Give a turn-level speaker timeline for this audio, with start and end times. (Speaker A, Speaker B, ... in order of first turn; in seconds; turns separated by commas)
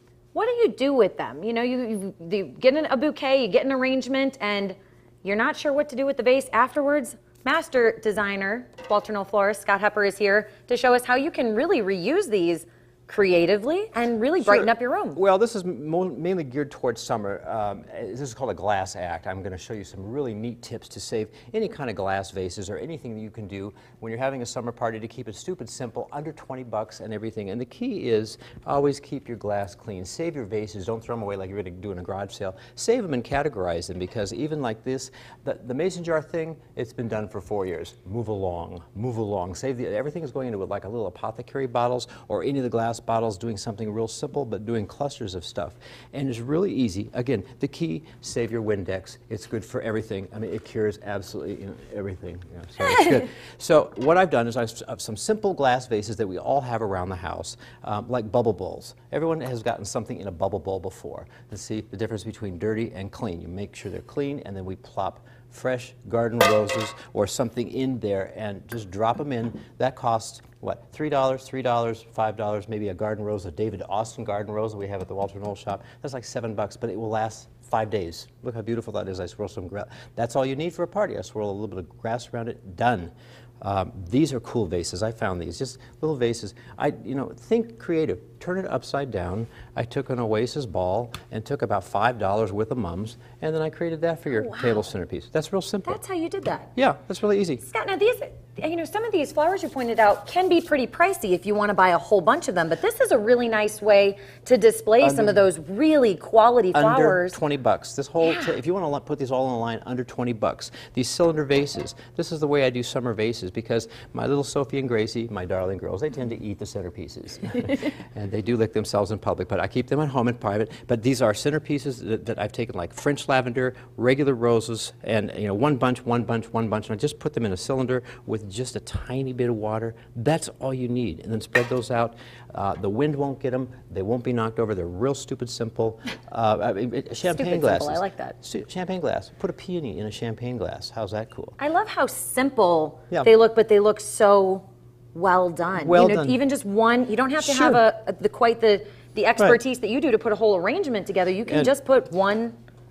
Speaker A: 0.3-15.2, Speaker B: 14.4-96.0, Speaker A: 94.3-94.9, Speaker A: 95.8-96.7, Speaker B: 96.7-97.6, Speaker A: 97.6-107.4, Speaker B: 105.0-105.4, Speaker B: 106.7-141.6, Speaker A: 108.2-108.5, Speaker A: 137.2-138.3, Speaker A: 141.6-152.5, Speaker B: 145.8-146.4, Speaker B: 147.4-147.8, Speaker B: 151.5-151.7